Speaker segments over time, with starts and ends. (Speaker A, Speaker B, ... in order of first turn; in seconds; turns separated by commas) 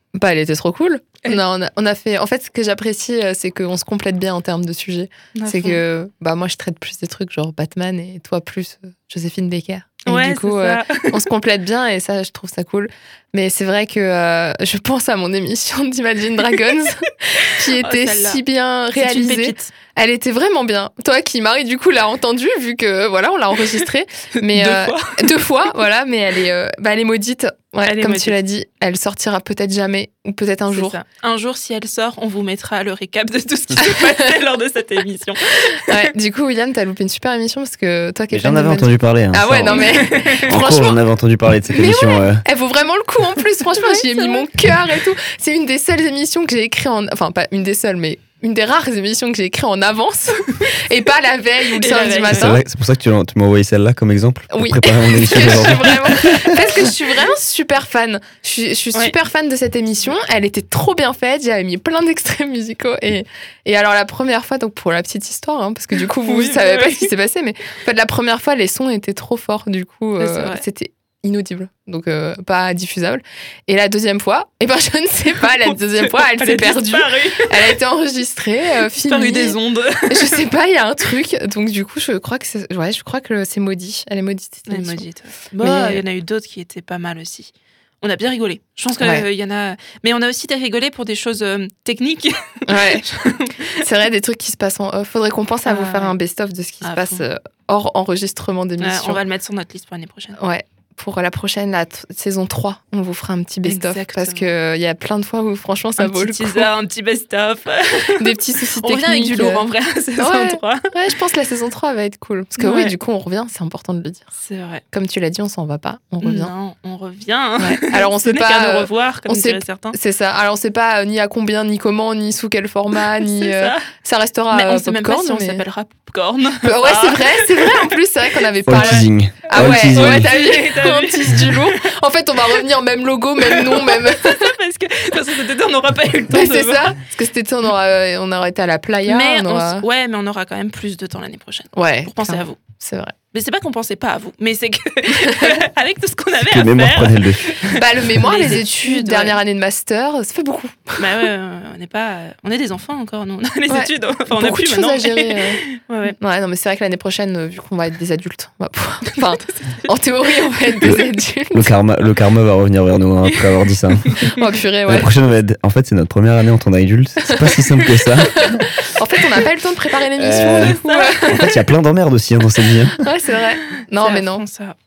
Speaker A: 0.1-31.0, Speaker B: 5.3-5.8, Speaker B: 10.1-11.2, Speaker B: 17.6-18.4, Speaker B: 18.9-19.7, Speaker B: 24.4-25.4, Speaker B: 27.8-28.4, Speaker B: 30.7-36.0, Speaker A: 33.8-34.1, Speaker A: 35.9-41.0, Speaker C: 38.3-42.4, Speaker B: 39.7-40.6, Speaker A: 41.7-52.5, Speaker B: 43.7-44.5, Speaker B: 51.7-52.6, Speaker C: 52.3-56.3, Speaker A: 54.5-85.1, Speaker B: 55.4-56.9, Speaker B: 66.2-67.1, Speaker B: 70.2-70.6, Speaker B: 75.5-77.7, Speaker B: 79.0-80.5, Speaker B: 84.7-93.8, Speaker A: 85.6-86.0, Speaker A: 89.0-89.3, Speaker A: 92.7-93.0, Speaker A: 93.8-99.2, Speaker B: 95.7-96.2, Speaker B: 96.8-97.2, Speaker B: 98.8-100.4, Speaker A: 100.4-106.7, Speaker B: 103.6-104.5, Speaker B: 106.0-110.9, Speaker A: 108.2-114.2, Speaker B: 112.6-112.9, Speaker B: 114.4-114.8, Speaker A: 114.9-116.5, Speaker B: 116.2-120.0, Speaker A: 117.6-125.6, Speaker B: 123.0-123.9, Speaker B: 124.5-128.0, Speaker A: 126.6-134.5, Speaker C: 128.7-130.3, Speaker B: 128.7-131.8, Speaker B: 133.4-137.0, Speaker A: 136.3-139.8, Speaker B: 139.1-142.6, Speaker A: 141.7-143.1, Speaker B: 143.3-149.4, Speaker A: 145.2-145.6, Speaker C: 146.4-147.8, Speaker A: 147.8-151.3, Speaker B: 151.0-156.2, Speaker A: 153.7-155.6, Speaker A: 156.2-161.7, Speaker B: 159.1-159.9, Speaker C: 161.5-164.1, Speaker B: 163.2-164.3, Speaker A: 164.4-165.1, Speaker C: 164.8-168.6, Speaker A: 167.2-167.6, Speaker A: 168.3-171.5, Speaker C: 170.2-170.8, Speaker B: 170.3-171.5, Speaker C: 171.3-173.0, Speaker A: 173.0-174.4, Speaker B: 173.9-174.8